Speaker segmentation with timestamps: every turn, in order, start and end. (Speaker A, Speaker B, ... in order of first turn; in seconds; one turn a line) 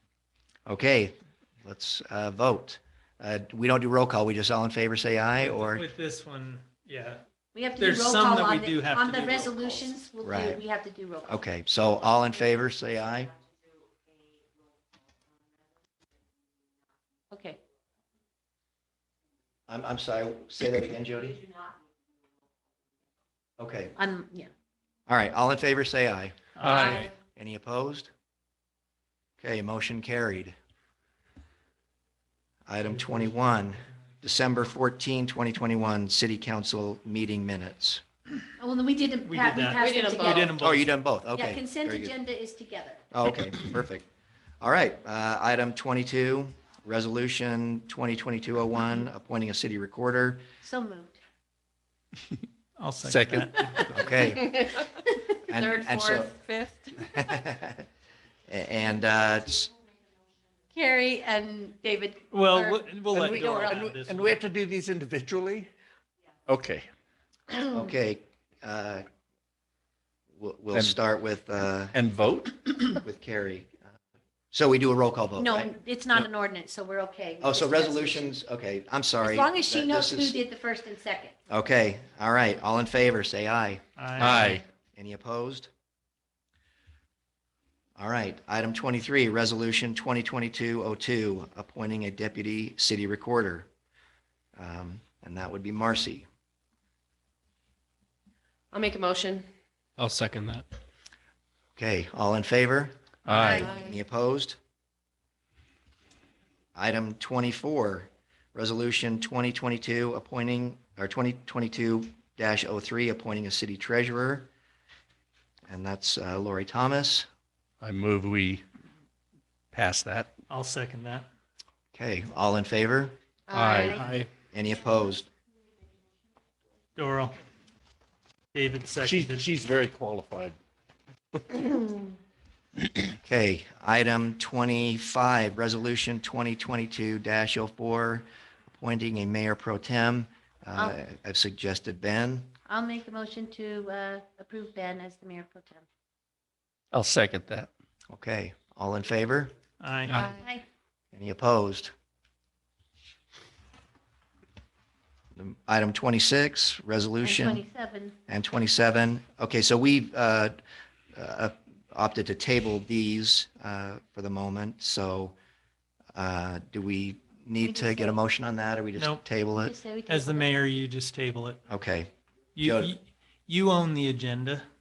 Speaker A: 0.7-5.8
Speaker B: 5.4-7.2
Speaker C: 7.5-11.4
Speaker B: 7.8-9.8
Speaker A: 10.2-10.6
Speaker A: 11.2-13.3
Speaker C: 17.3-17.6
Speaker A: 19.7-21.4
Speaker A: 23.6-23.9
Speaker C: 23.9-24.5
Speaker A: 25.1-28.1
Speaker B: 26.6-27.1
Speaker D: 26.6-27.1
Speaker A: 29.4-30.5
Speaker A: 32.7-38.0
Speaker C: 38.6-40.6
Speaker B: 39.2-40.9
Speaker E: 39.8-40.5
Speaker A: 40.6-42.1
Speaker C: 41.3-43.0
Speaker A: 43.1-44.0
Speaker A: 44.6-50.4
Speaker C: 50.6-51.2
Speaker B: 52.8-54.1
Speaker D: 53.0-53.5
Speaker A: 53.9-54.6
Speaker A: 55.5-56.4
Speaker E: 55.5-56.9
Speaker A: 57.1-57.8
Speaker A: 58.5-59.7
Speaker C: 60.7-62.8
Speaker B: 62.3-64.3
Speaker D: 63.1-65.7
Speaker C: 63.4-63.8
Speaker D: 66.5-66.9
Speaker A: 67.7-69.1
Speaker A: 70.3-72.0
Speaker D: 70.7-71.0
Speaker D: 71.9-72.9
Speaker A: 72.9-73.9
Speaker A: 74.5-75.8
Speaker C: 75.4-78.3
Speaker A: 77.4-80.4
Speaker C: 79.2-81.3
Speaker A: 81.5-85.7
Speaker B: 84.0-84.6
Speaker D: 84.2-84.6
Speaker A: 88.0-93.7
Speaker A: 94.5-96.3
Speaker E: 98.7-99.5
Speaker D: 100.0-100.6
Speaker A: 101.8-104.6
Speaker D: 103.2-103.7
Speaker C: 103.3-103.7
Speaker E: 103.4-104.0
Speaker A: 106.7-114.5
Speaker A: 115.7-117.3
Speaker D: 117.8-118.6
Speaker D: 119.7-120.3
Speaker B: 120.5-121.2
Speaker A: 121.9-123.2
Speaker E: 123.5-124.0
Speaker D: 123.5-124.3
Speaker A: 124.5-125.3
Speaker B: 127.0-127.3
Speaker B: 128.5-129.4
Speaker D: 129.0-130.6
Speaker A: 133.2-142.5
Speaker C: 142.7-145.8
Speaker D: 146.9-147.7
Speaker A: 148.1-149.5
Speaker B: 149.8-150.3
Speaker C: 150.2-150.6
Speaker A: 151.1-151.9
Speaker A: 155.3-157.6
Speaker C: 157.2-158.2
Speaker A: 158.3-160.6
Speaker A: 161.1-165.4
Speaker A: 166.1-169.7
Speaker C: 167.6-168.2
Speaker B: 168.9-169.2
Speaker C: 169.6-170.7
Speaker B: 170.1-171.6
Speaker A: 171.7-172.9
Speaker B: 172.5-174.6